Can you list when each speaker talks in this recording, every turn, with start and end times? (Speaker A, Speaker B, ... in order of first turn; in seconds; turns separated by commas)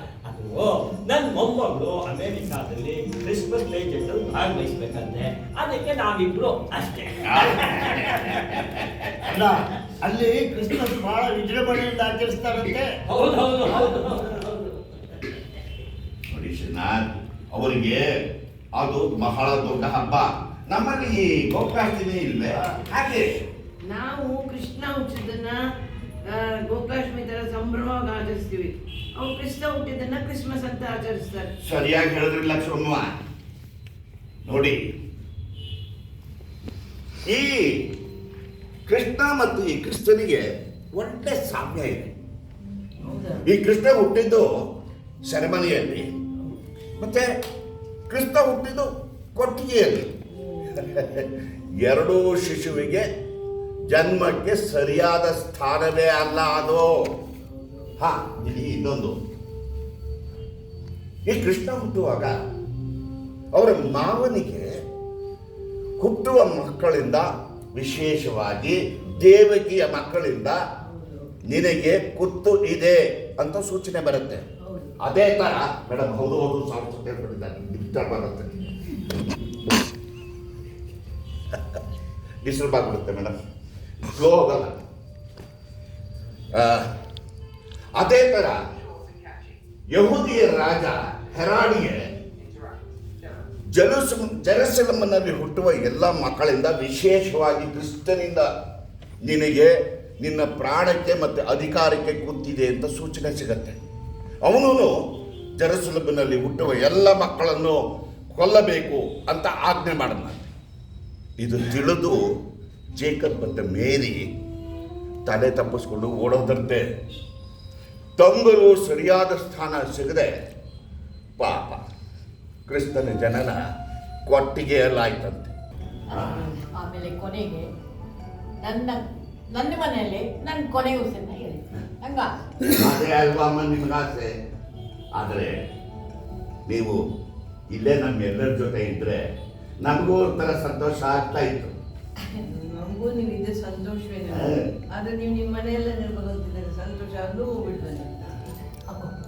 Speaker A: 0.2-9.3, Speaker B: 7.2-8.8, Speaker C: 9.3-13.0, Speaker A: 13.1-14.7, Speaker B: 16.3-18.1, Speaker B: 18.7-23.4, Speaker D: 23.8-25.6, Speaker D: 26.2-31.5, Speaker B: 31.6-33.1, Speaker B: 34.4-34.8, Speaker B: 37.2-37.9, Speaker B: 38.9-42.1, Speaker D: 43.0-43.4, Speaker B: 43.4-44.5, Speaker B: 45.2-46.1, Speaker B: 47.0-47.3, Speaker B: 48.1-50.1, Speaker D: 50.3-50.8, Speaker B: 50.8-53.0, Speaker B: 53.9-57.1, Speaker B: 58.0-59.2, Speaker B: 61.2-62.4, Speaker B: 63.5-64.8, Speaker B: 66.0-70.6, Speaker D: 70.9-71.3, Speaker B: 71.5-74.4, Speaker D: 74.6-74.9, Speaker B: 75.0-78.7, Speaker B: 82.4-83.3, Speaker B: 84.0-84.8, Speaker B: 86.5-86.9, Speaker B: 88.0-88.6, Speaker B: 89.9-92.1, Speaker B: 93.7-98.5, Speaker B: 99.2-103.8, Speaker B: 104.4-104.9, Speaker B: 105.6-107.8, Speaker B: 108.3-110.4, Speaker B: 111.4-112.2, Speaker B: 113.0-114.3, Speaker B: 115.2-116.8, Speaker B: 118.2-120.3, Speaker B: 121.4-121.8, Speaker B: 122.7-123.6, Speaker B: 124.3-125.5, Speaker B: 126.1-126.5, Speaker E: 126.1-127.7, Speaker E: 128.6-132.3, Speaker B: 132.6-134.3, Speaker B: 135.1-135.5, Speaker B: 136.7-137.0, Speaker B: 137.7-139.2, Speaker B: 139.8-141.7, Speaker D: 142.4-149.1, Speaker B: 144.3-144.7